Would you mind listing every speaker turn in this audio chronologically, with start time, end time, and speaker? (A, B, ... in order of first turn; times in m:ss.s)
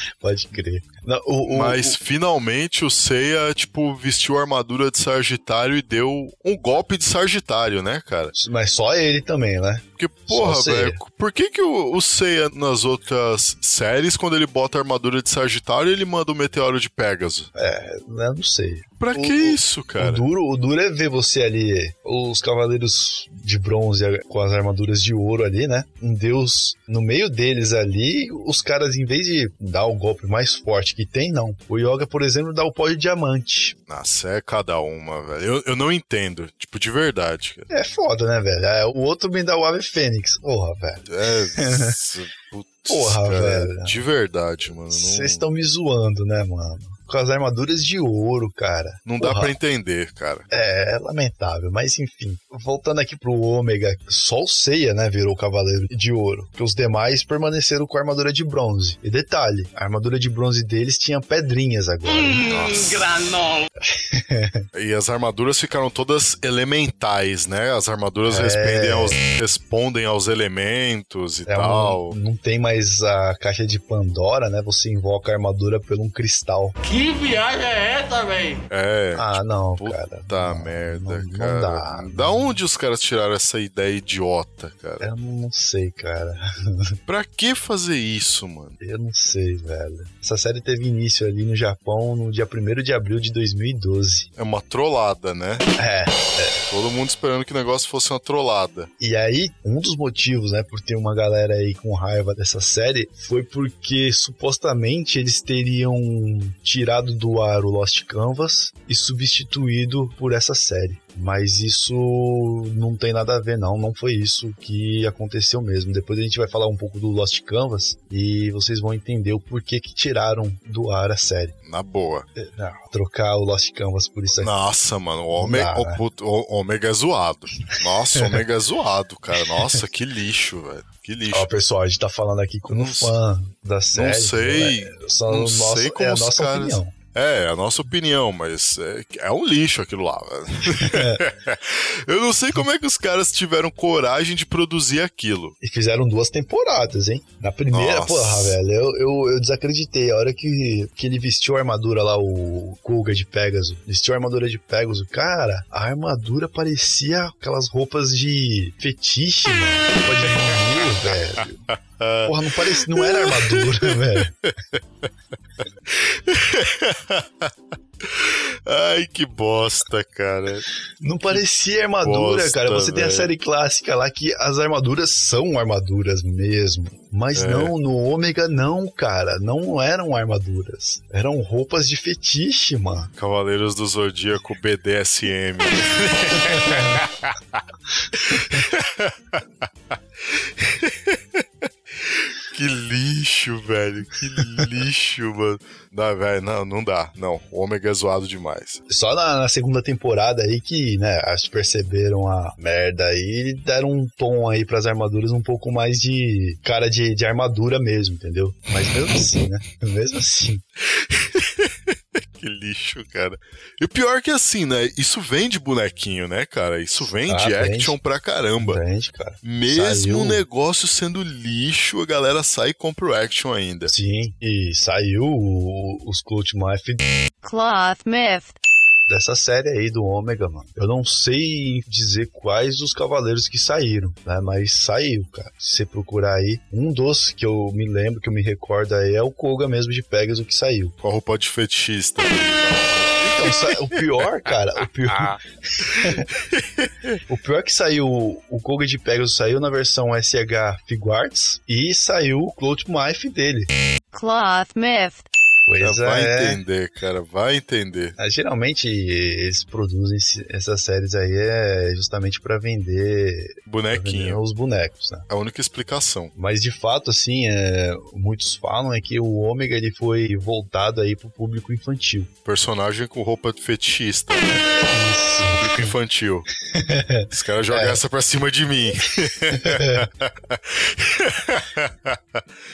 0:00.2-0:02.0 A
0:01.5-0:08.3 B
0:08.3-0:11.0 A
0:10.0-0:17.5 B
0:17.5-0:33.8 A
0:19.0-0:20.2 B
0:33.9-0:37.7 B
0:37.7-0:42.0 A
0:41.1-0:45.4 B
0:42.9-0:44.0 A
0:44.9-0:49.5 A
0:49.0-0:50.5 B
0:50.5-1:02.5 A
1:02.1-1:03.7 C
1:02.5-1:03.1 B
1:03.8-1:04.7 A
1:04.7-1:12.2 B
1:08.3-1:09.2 A
1:11.5-1:16.8 A
1:16.8-1:18.6 C
1:18.7-1:25.1 B
1:19.1-1:22.6 A
1:25.0-1:27.0 A
1:27.1-1:28.8 B
1:28.8-1:34.3 A
1:34.4-1:35.7 B
1:35.8-1:36.6 A
1:36.6-1:38.9 B
1:39.0-2:01.5 A
2:01.6-2:02.2 B
2:02.4-2:04.5 A
2:04.4-2:11.5 B
2:05.3-2:06.0 A
2:08.1-2:08.4 A
2:11.3-2:16.9 A
2:12.7-2:13.2 B
2:13.9-2:25.5 B
2:20.7-2:21.2 A
2:25.6-2:41.6 A
2:27.7-2:28.6 B
2:41.7-2:44.8 B
2:42.2-2:44.3 A
2:45.9-2:47.5 B
2:48.0-2:50.6 B
2:51.0-3:03.1 A
2:52.0-2:53.3 B
2:57.3-2:57.7 B
3:03.2-3:07.6 B
3:08.1-3:09.6 B
3:10.3-3:18.8 B
3:18.9-3:30.6 A
3:30.9-3:38.8 B
3:37.2-3:38.0 A
3:38.6-3:40.4 A
3:39.4-3:43.9 B
3:43.9-3:47.0 A
3:47.4-3:48.5 D
3:49.1-4:00.9 A
4:01.0-4:04.0 B
4:03.2-4:06.3 A
4:05.8-4:07.2 B
4:07.3-4:13.7 A
4:14.1-4:15.2 D
4:15.7-4:16.6 A
4:15.8-4:18.2 B
4:18.2-4:25.2 A
4:23.7-4:24.4 B
4:25.3-4:26.3 B
4:26.3-4:32.3 A
4:32.4-4:34.7 B
4:34.6-4:35.9 A
4:35.4-4:36.5 B
4:36.6-4:38.0 A
4:37.3-4:42.4 B
4:39.5-4:40.0 A